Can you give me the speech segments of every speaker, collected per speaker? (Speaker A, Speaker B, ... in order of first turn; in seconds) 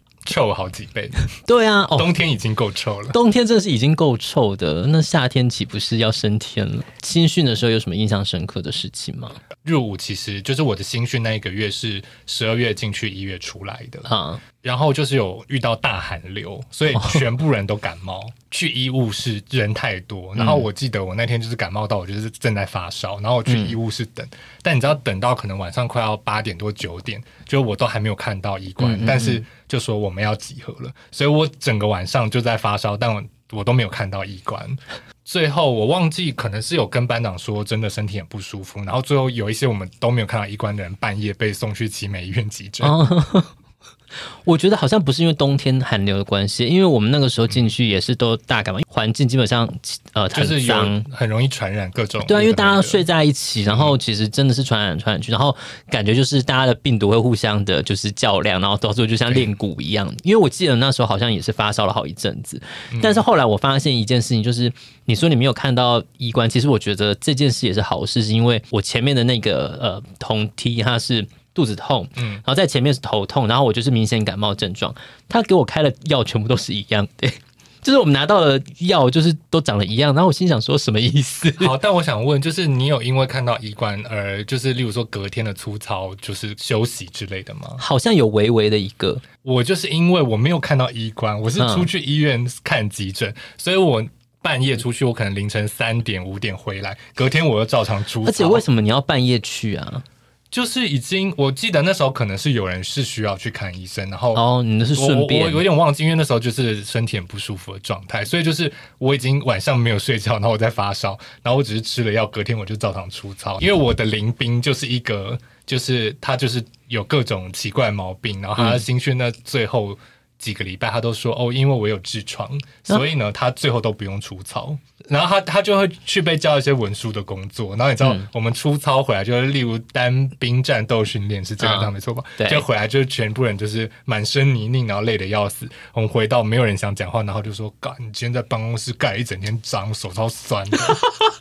Speaker A: 0.2-1.2, 1.9-3.2, 9.6-14.1, 14.6-42.9, 50.3-53.0, 53.7-53.9, 62.9-63.2, 72.2-72.4, 81.6-87.8, 89.4-98.6, 100.5-104.4, 105.0-141.1
Speaker B: 1.4-2.1, 3.1-9.4, 14.0-14.4, 16.9-17.2, 20.4-20.6, 23.4-23.8, 28.8-29.4, 42.8-43.5, 44.5-51.0, 52.2-81.7, 87.8-89.2, 91.6-91.9, 98.2-100.0, 104.3-105.6, 118.6-118.8, 128.0-128.3, 131.6-132.6